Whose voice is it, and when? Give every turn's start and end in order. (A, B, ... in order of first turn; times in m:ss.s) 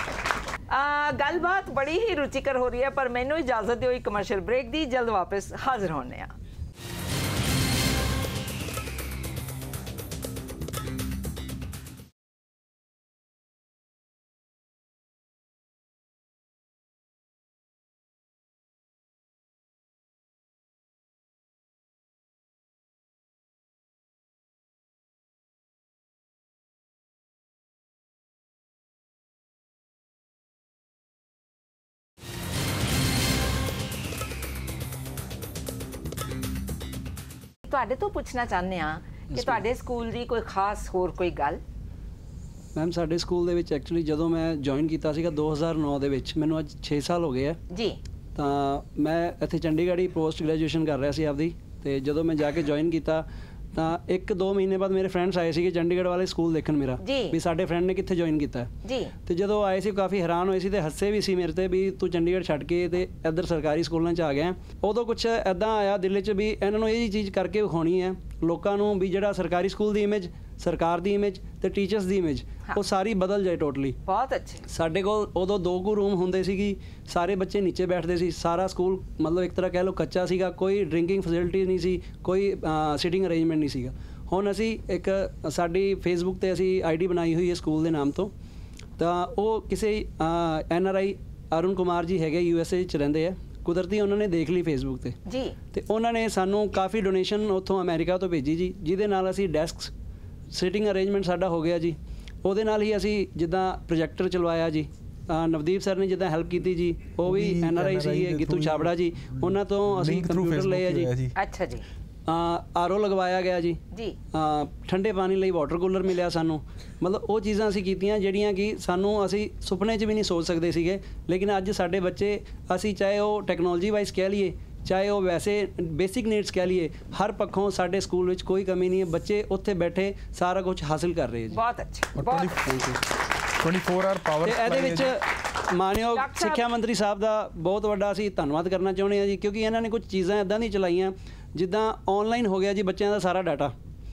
0:00.7-0:06.3 A
0:37.7-0:41.6 A
0:42.8-0:47.6 B
0:47.7-0:48.0 A
0:48.4-0:58.7 B
0:57.0-0:57.4 A
0:58.8-0:59.1 A
0:59.2-1:14.0 B
1:14.1-1:14.6 A
1:14.7-1:28.3 B
1:29.0-1:35.2 B
1:35.3-1:35.6 A
1:35.7-1:39.9 B
1:40.5-1:51.2 B
1:47.2-1:51.3 C
1:51.4-1:51.9 A
1:52.3-1:53.8 B
1:53.9-1:54.2 A
1:54.3-2:11.6 B
2:11.5-2:12.6 A
2:12.2-2:12.9 C
2:12.6-2:13.0 B
2:13.6-2:15.1 C
2:14.4-2:23.7 B
2:16.1-2:16.6 A